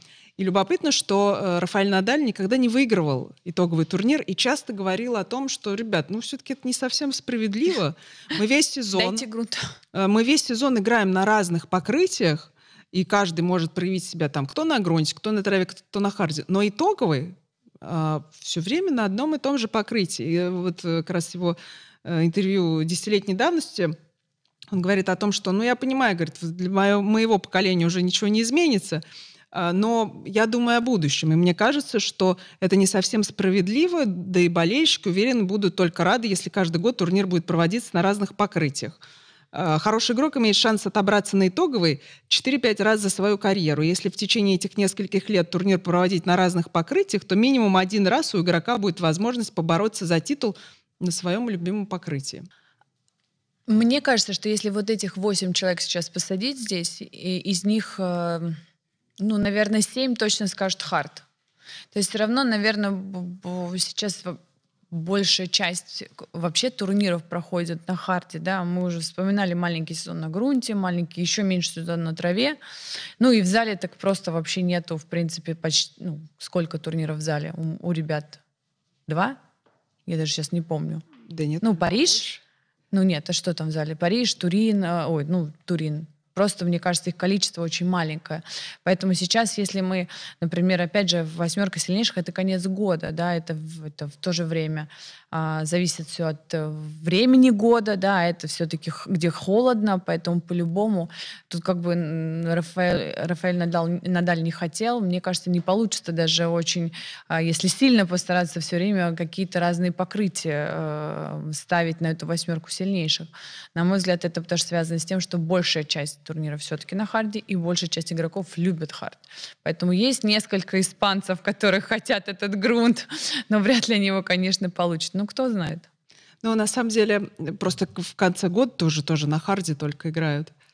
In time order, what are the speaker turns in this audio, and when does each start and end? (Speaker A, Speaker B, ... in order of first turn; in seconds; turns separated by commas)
Speaker A: 0.4-9.2, Speaker B: 8.9-9.6, Speaker A: 9.9-23.9, Speaker A: 24.7-39.0, Speaker A: 39.5-52.5, Speaker B: 53.7-58.6, Speaker B: 59.2-61.2, Speaker B: 61.9-64.4, Speaker B: 64.9-72.6, Speaker B: 73.2-78.4, Speaker B: 79.1-79.4, Speaker B: 80.1-81.0, Speaker A: 81.3-82.4, Speaker B: 81.6-82.2, Speaker B: 82.9-125.9, Speaker A: 126.4-130.5